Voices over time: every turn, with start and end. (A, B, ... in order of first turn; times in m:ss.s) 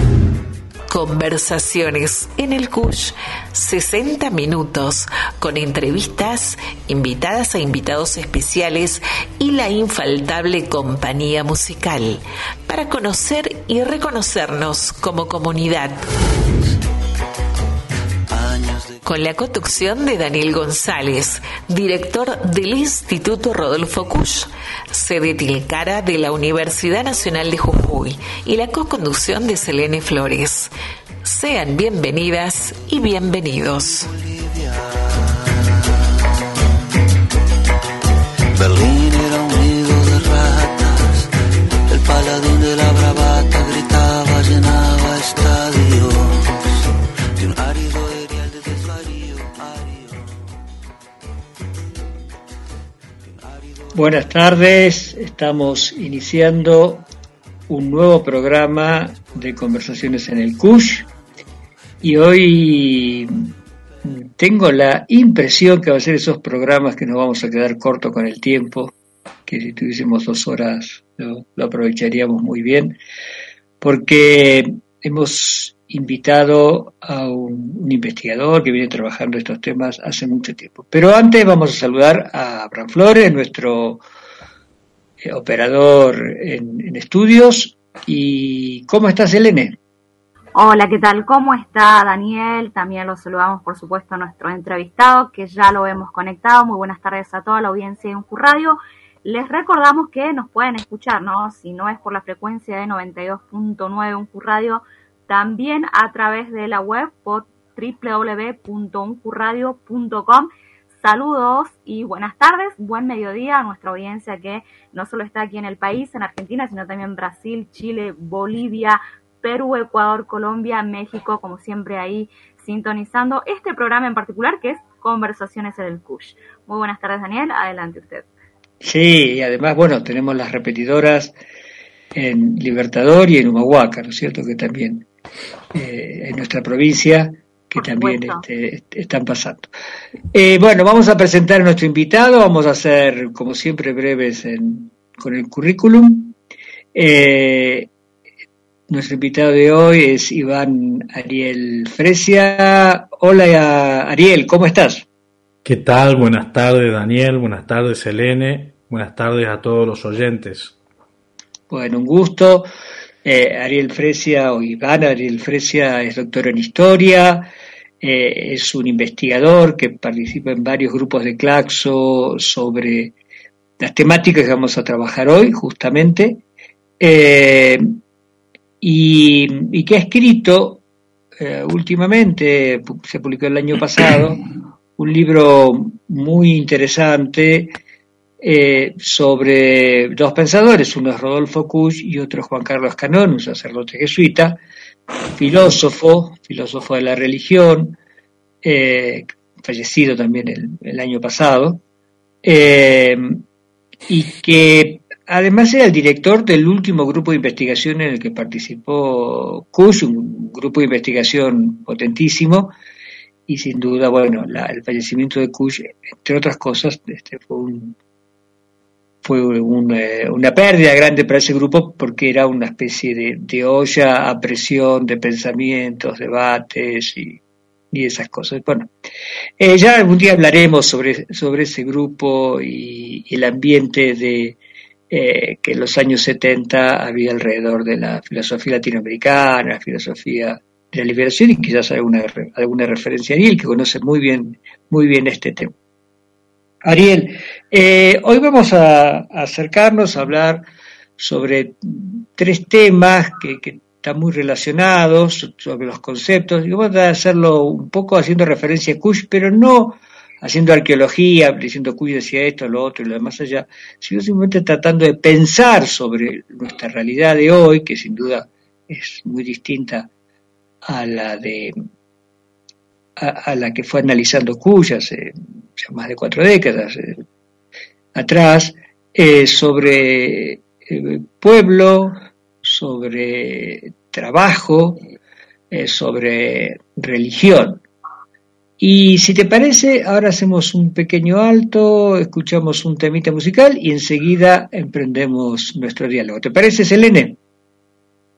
0:00.9-0:16.1 A
0:18.3-0:19.0 B
0:19.0-0:30.7 A
0:31.2-0:34.1 A
0:34.2-0:35.5 B
0:38.5-0:41.3 B
0:41.9-0:46.8 B
0:47.4-0:50.3 B
0:53.9-0:57.0 C
0:57.7-1:01.1 C
1:02.0-1:03.5 C
1:04.0-1:08.9 C
1:09.5-1:13.0 C
1:13.8-1:24.0 C
1:25.2-1:29.8 C
1:30.5-1:50.5 D
1:51.0-2:08.2 D
2:08.8-2:11.3 C
2:12.1-2:15.0 C
2:15.7-2:19.7 C
2:17.8-2:18.4 D
2:20.3-2:26.4 C
2:26.9-2:27.9 C
2:28.9-2:35.0 C
2:35.6-2:40.8 E
2:41.7-2:42.7 C
2:43.2-2:47.5 C
2:48.0-2:53.1 C
2:53.8-2:56.4 C
2:57.0-2:58.0 C
2:58.8-3:00.8 C
3:01.4-3:07.8 C
3:08.4-3:14.6 C
3:15.3-3:18.0 C
3:18.6-3:21.8 C
3:22.4-3:23.4 C
3:24.1-3:32.7 C
3:33.5-3:38.0 C
3:39.2-3:47.4 C
3:47.9-3:48.9 C
3:49.6-3:54.6 C
3:55.1-4:05.7 C
4:06.8-4:10.6 C
4:11.2-4:30.1 C
4:30.9-4:31.7 C
4:33.2-4:37.2 C
4:38.1-4:45.0 C
4:45.7-4:47.8 C
4:48.8-4:57.4 C